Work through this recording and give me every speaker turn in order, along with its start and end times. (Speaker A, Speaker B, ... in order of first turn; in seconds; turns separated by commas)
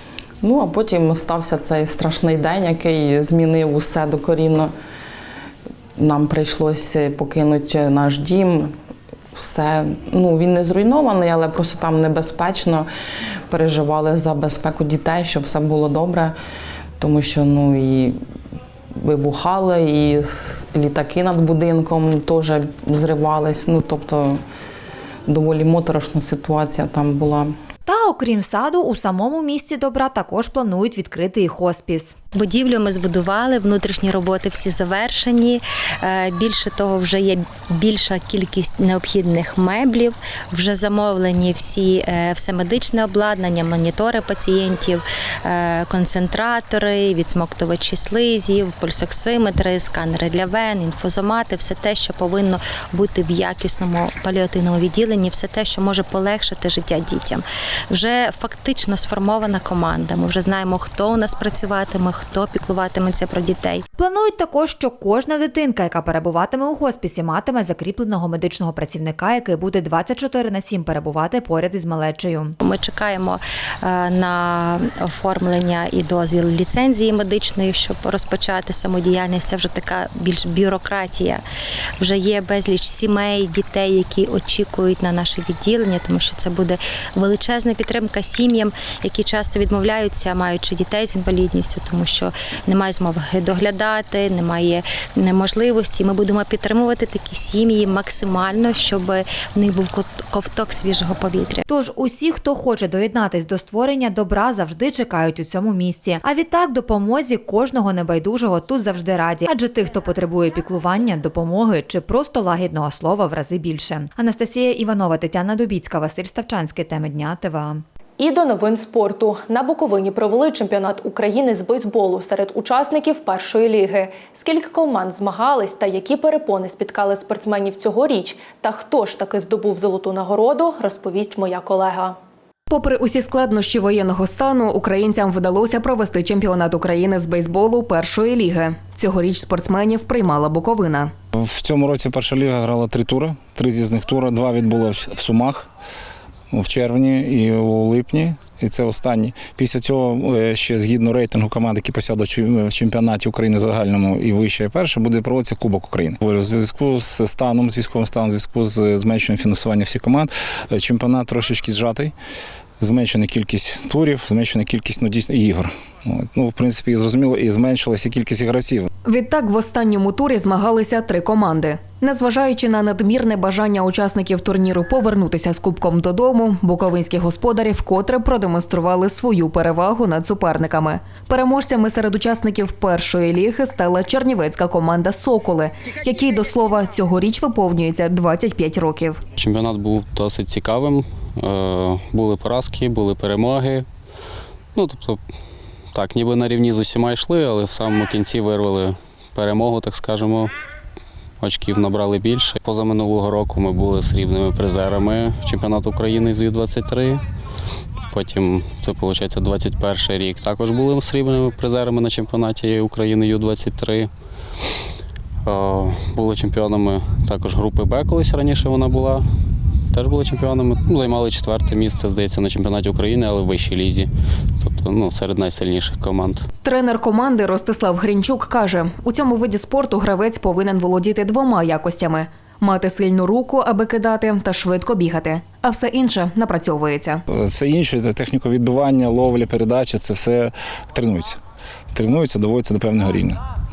Speaker A: 0.4-4.7, Speaker A: 6.0-8.7, Speaker A: 9.3-12.9, Speaker A: 13.5-16.4, Speaker A: 17.0-18.2, Speaker A: 19.0-24.4, Speaker A: 25.3-27.5, Speaker B: 27.9-32.2, Speaker C: 32.3-63.8, Speaker B: 64.0-72.6, Speaker C: 72.6-81.4, Speaker C: 82.0-101.6, Speaker B: 101.7-117.8, Speaker D: 118.2-132.2, Speaker E: 132.7-141.1, Speaker F: 141.4-145.7, Speaker F: 146.5-162.1, Speaker F: 162.8-168.9, Speaker E: 169.0-189.2, Speaker G: 189.4-193.9, Speaker G: 194.8-195.2, Speaker G: 195.9-200.5, Speaker G: 201.4-207.2, Speaker G: 208.1-214.1, Speaker G: 215.5-219.2, Speaker G: 219.9-226.5, Speaker E: 226.6-237.2, Speaker F: 237.3-241.4, Speaker F: 241.9-243.4